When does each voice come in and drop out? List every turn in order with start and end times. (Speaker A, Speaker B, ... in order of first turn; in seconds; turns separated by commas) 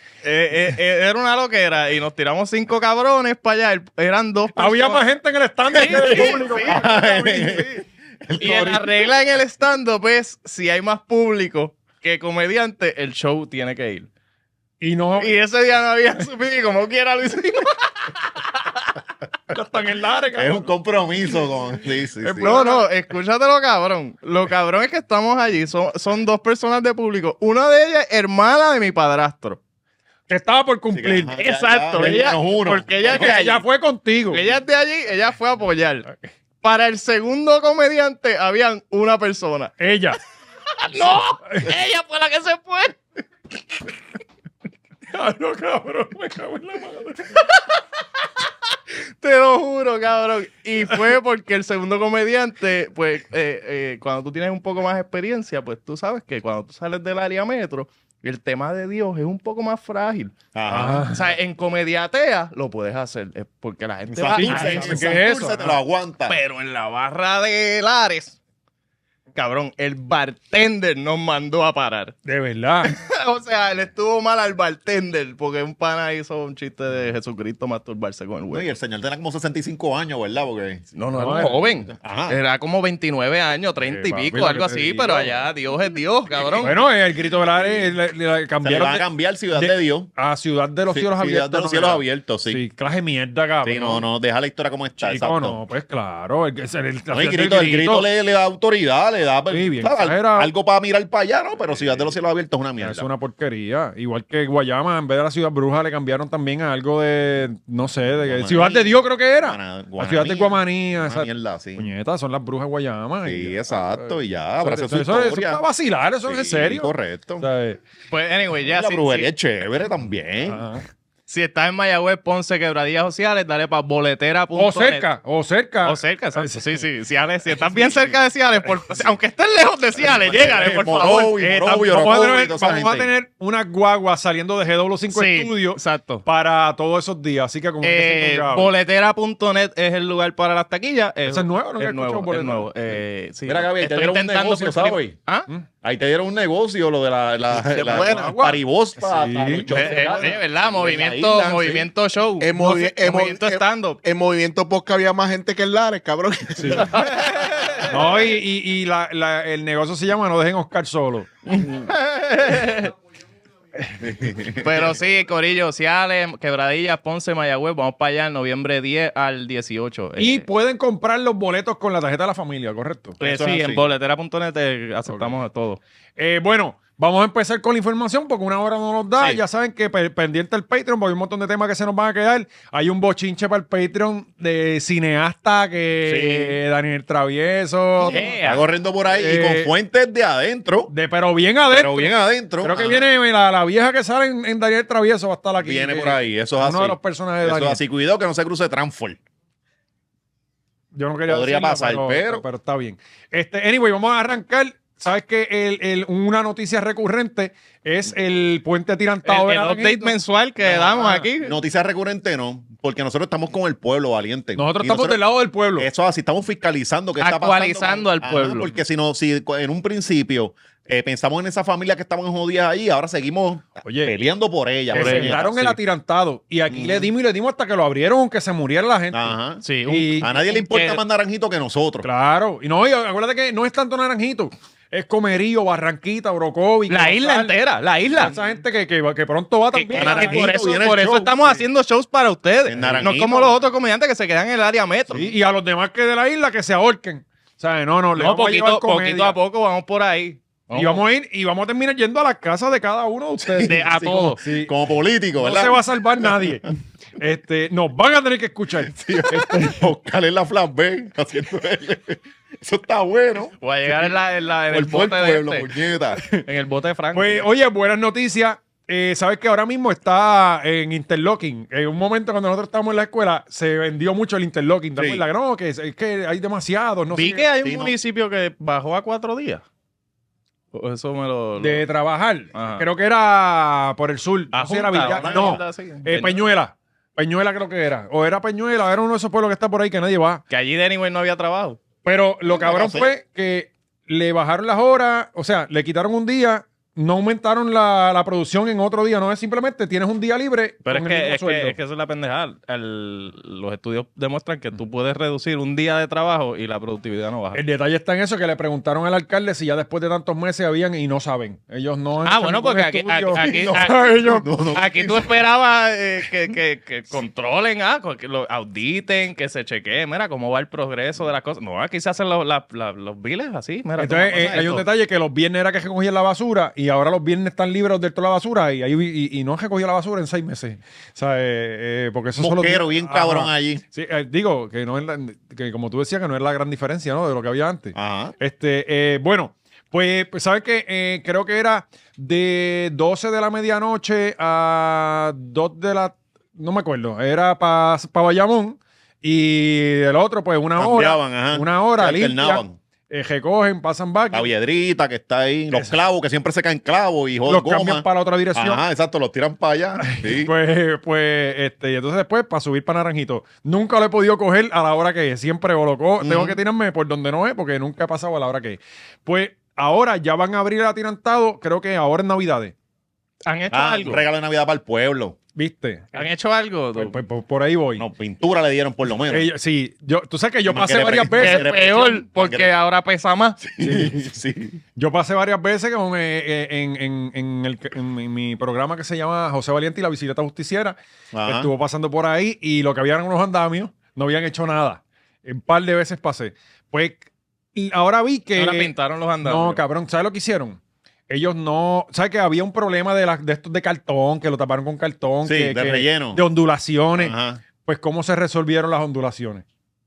Speaker A: 0.2-5.0, Speaker B: 4.5-7.5, Speaker C: 5.7-7.7, Speaker A: 5.7-7.8, Speaker C: 8.2-9.1, Speaker A: 8.4-14.1, Speaker B: 14.8-15.3, Speaker A: 15.2-18.9, Speaker B: 19.5-20.7, Speaker C: 20.3-22.6, Speaker B: 22.2-22.9, Speaker A: 22.4-29.6, Speaker B: 30.3-31.4, Speaker C: 30.9-33.6, Speaker A: 31.4-33.6, Speaker B: 33.1-34.4, Speaker A: 34.3-36.1, Speaker A: 36.6-39.8, Speaker B: 39.8-40.2, Speaker A: 40.8-43.0, Speaker B: 45.1-47.4, Speaker A: 49.2-65.2, Speaker C: 60.5-61.1, Speaker B: 60.7-61.2, Speaker C: 64.1-66.4, Speaker B: 64.3-65.7, Speaker A: 66.3-68.4, Speaker A: 69.3-72.2, Speaker B: 72.2-72.9, Speaker A: 72.8-78.7, Speaker C: 78.5-80.8, Speaker A: 81.0-86.7, Speaker B: 81.1-81.6, Speaker C: 82.0-82.4, Speaker B: 83.8-85.3, Speaker B: 86.6-94.1, Speaker C: 87.3-87.9, Speaker C: 88.6-90.1, Speaker C: 90.9-92.6, Speaker C: 93.6-95.6, Speaker B: 95.0-98.1, Speaker C: 97.1-103.1, Speaker B: 99.5-100.5, Speaker B: 102.8-117.8, Speaker C: 108.2-111.9, Speaker C: 113.2-115.6, Speaker C: 116.2-117.5, Speaker A: 118.1-119.3, Speaker C: 118.6-120.6, Speaker B: 120.5-120.8, Speaker A: 121.3-125.0, Speaker B: 124.5-126.6, Speaker A: 125.8-131.3, Speaker C: 130.0-133.1, Speaker B: 131.0-138.7, Speaker A: 135.1-136.2, Speaker A: 137.8-145.5, Speaker B: 141.3-142.7, Speaker C: 143.4-145.2, Speaker C: 145.8-151.9, Speaker A: 147.7-148.1, Speaker D: 147.9-148.2, Speaker B: 148.0-149.7, Speaker A: 149.7-154.0, Speaker D: 152.4-157.1, Speaker B: 156.6-156.9, Speaker A: 156.9-157.9, Speaker B: 157.9-161.3, Speaker A: 161.5-162.9, Speaker C: 164.0-164.9, Speaker A: 164.6-170.5, Speaker B: 170.2-173.2, Speaker A: 173.2-175.8, Speaker C: 173.2-173.8, Speaker B: 175.1-175.3, Speaker B: 176.2-188.3, Speaker C: 186.0-186.6, Speaker A: 188.0-188.6, Speaker C: 188.0-190.9, Speaker B: 189.1-189.7, Speaker B: 190.9-197.8, Speaker C: 191.6-193.1, Speaker C: 195.6-199.2, Speaker B: 200.9-210.2, Speaker C: 201.3-202.4, Speaker A: 209.2-211.6, Speaker C: 210.6-215.2, Speaker B: 214.6-215.9, Speaker C: 215.8-225.5, Speaker A: 217.2-218.7, Speaker B: 223.8-224.1, Speaker B: 224.9-230.3, Speaker A: 224.9-225.8, Speaker C: 226.7-227.1, Speaker C: 229.1-229.6, Speaker A: 229.6-231.0, Speaker C: 230.2-232.1, Speaker B: 232.0-237.5, Speaker A: 236.9-238.3, Speaker B: 238.2-240.5, Speaker C: 238.2-238.5, Speaker A: 239.7-245.2, Speaker C: 239.9-241.6, Speaker C: 242.7-243.6, Speaker B: 245.1-249.4, Speaker A: 248.2-251.0, Speaker B: 250.7-253.8, Speaker C: 253.4-256.6, Speaker A: 253.6-254.4, Speaker B: 254.4-254.7, Speaker B: 255.4-259.8, Speaker C: 258.7-264.1, Speaker A: 263.6-265.7, Speaker C: 264.7-266.2, Speaker A: 266.4-267.4, Speaker B: 267.1-277.4, Speaker C: 274.9-275.2, Speaker A: 277.1-279.6, Speaker C: 277.6-277.9, Speaker A: 280.7-281.8, Speaker B: 281.6-290.4, Speaker A: 282.5-282.8, Speaker A: 284.5-286.5, Speaker C: 284.9-285.6, Speaker A: 290.5-291.8, Speaker B: 292.0-301.8, Speaker C: 292.4-293.1, Speaker A: 300.9-307.6, Speaker B: 307.5-314.4, Speaker A: 312.2-314.1, Speaker C: 313.4-315.3, Speaker A: 314.8-324.8, Speaker B: 324.0-354.5, Speaker C: 332.4-333.8, Speaker C: 337.9-338.4, Speaker C: 350.8-352.8, Speaker C: 354.3-360.5, Speaker B: 357.5-358.8, Speaker B: 360.0-372.7, Speaker C: 366.2-366.6, Speaker A: 373.5-374.2, Speaker C: 373.7-375.4, Speaker B: 375.6-376.2, Speaker A: 376.1-377.2, Speaker B: 377.0-378.1, Speaker C: 378.0-379.5, Speaker B: 379.3-381.7, Speaker C: 380.7-382.7, Speaker A: 381.4-383.6, Speaker C: 383.6-384.8, Speaker B: 383.8-384.2, Speaker B: 385.0-397.2, Speaker C: 391.3-391.7, Speaker B: 397.8-398.9, Speaker A: 398.6-399.8, Speaker B: 399.4-409.6, Speaker C: 405.4-406.4, Speaker C: 407.2-407.6